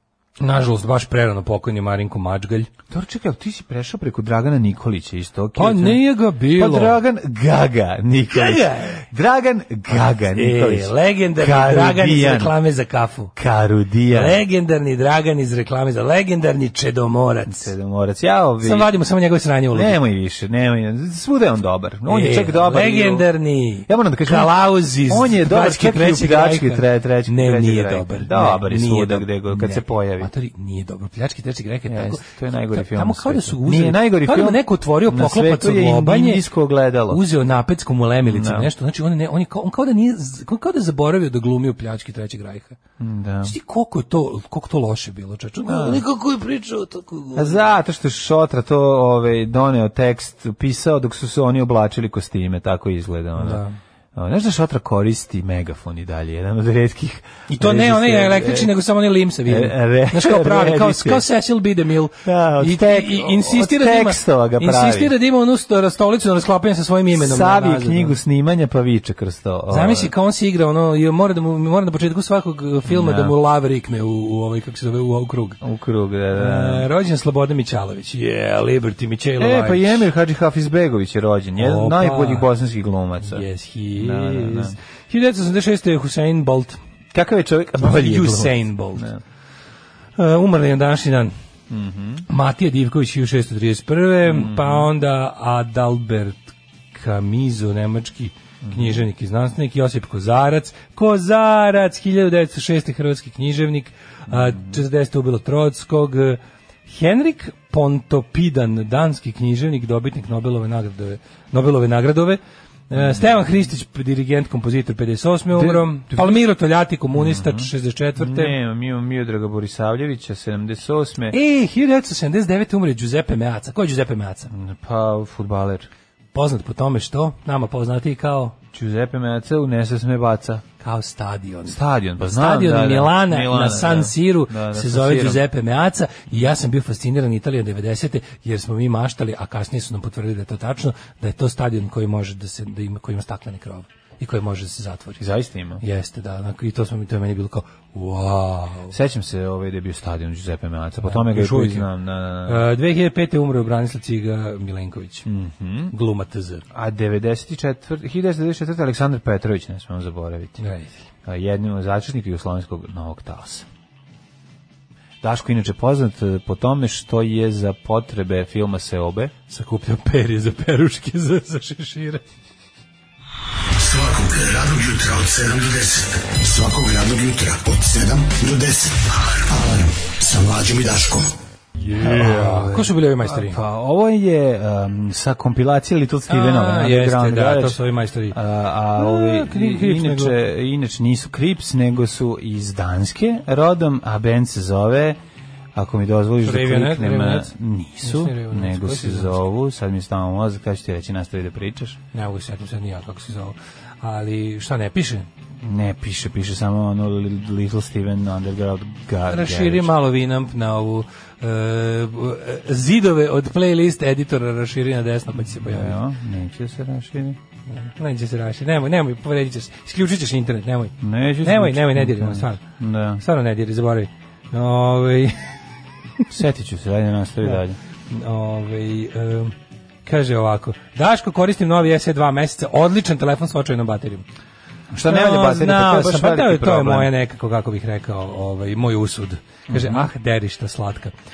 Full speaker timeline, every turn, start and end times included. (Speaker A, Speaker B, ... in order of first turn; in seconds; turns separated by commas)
Speaker A: 0.4-2.7, Speaker B: 2.9-12.5, Speaker A: 5.5-7.0, Speaker A: 8.3-9.0, Speaker A: 10.3-13.3, Speaker B: 13.3-14.4, Speaker A: 14.1-17.7, Speaker B: 17.4-18.9, Speaker A: 18.6-20.0, Speaker B: 19.7-23.3, Speaker A: 22.1-36.4, Speaker B: 23.9-30.3, Speaker B: 31.9-37.2, Speaker A: 37.1-42.8, Speaker B: 38.2-38.7, Speaker B: 43.0-43.5, Speaker A: 43.4-47.6, Speaker B: 45.7-46.0, Speaker B: 47.3-53.6, Speaker A: 53.4-53.8, Speaker B: 54.1-58.7, Speaker A: 57.5-68.2, Speaker B: 59.5-61.2, Speaker B: 62.2-65.1, Speaker B: 67.1-70.1, Speaker A: 69.7-75.6, Speaker B: 72.9-73.3, Speaker B: 75.6-76.9, Speaker A: 76.3-80.1, Speaker B: 79.4-83.4, Speaker A: 81.6-82.5, Speaker A: 83.2-86.8, Speaker B: 83.9-84.8, Speaker B: 87.1-89.2, Speaker A: 87.8-89.1, Speaker A: 90.2-91.3, Speaker B: 91.7-92.2, Speaker A: 92.3-96.4, Speaker B: 94.2-94.9, Speaker A: 96.9-118.5, Speaker B: 98.6-99.0, Speaker B: 104.3-104.8, Speaker B: 112.9-113.4, Speaker B: 115.5-116.4, Speaker B: 117.1-121.3, Speaker A: 121.3-124.5, Speaker B: 124.5-125.9, Speaker A: 126.3-128.5, Speaker B: 128.7-130.6, Speaker A: 130.8-145.2, Speaker B: 131.7-135.4, Speaker B: 145.2-145.8, Speaker A: 145.8-148.9, Speaker B: 148.9-152.7, Speaker A: 151.0-151.9, Speaker A: 152.4-155.2, Speaker B: 155.2-155.9, Speaker A: 155.9-156.6, Speaker B: 156.7-160.6, Speaker A: 160.6-161.0, Speaker B: 161.2-163.7, Speaker B: 165.2-169.3, Speaker A: 169.5-172.2, Speaker C: 173.7-181.4, Speaker A: 181.8-183.6, Speaker B: 181.9-187.8, Speaker A: 186.3-188.4, Speaker B: 188.3-195.2, Speaker A: 188.9-190.4, Speaker B: 195.7-202.0, Speaker A: 196.4-199.3, Speaker A: 202.1-205.3, Speaker B: 205.6-209.9, Speaker A: 209.3-216.0, Speaker B: 215.3-217.4, Speaker A: 217.7-222.6, Speaker B: 221.0-223.2, Speaker A: 223.2-225.5, Speaker B: 226.3-227.8, Speaker A: 228.1-234.2, Speaker B: 234.9-237.1, Speaker A: 235.1-241.1, Speaker B: 239.7-240.1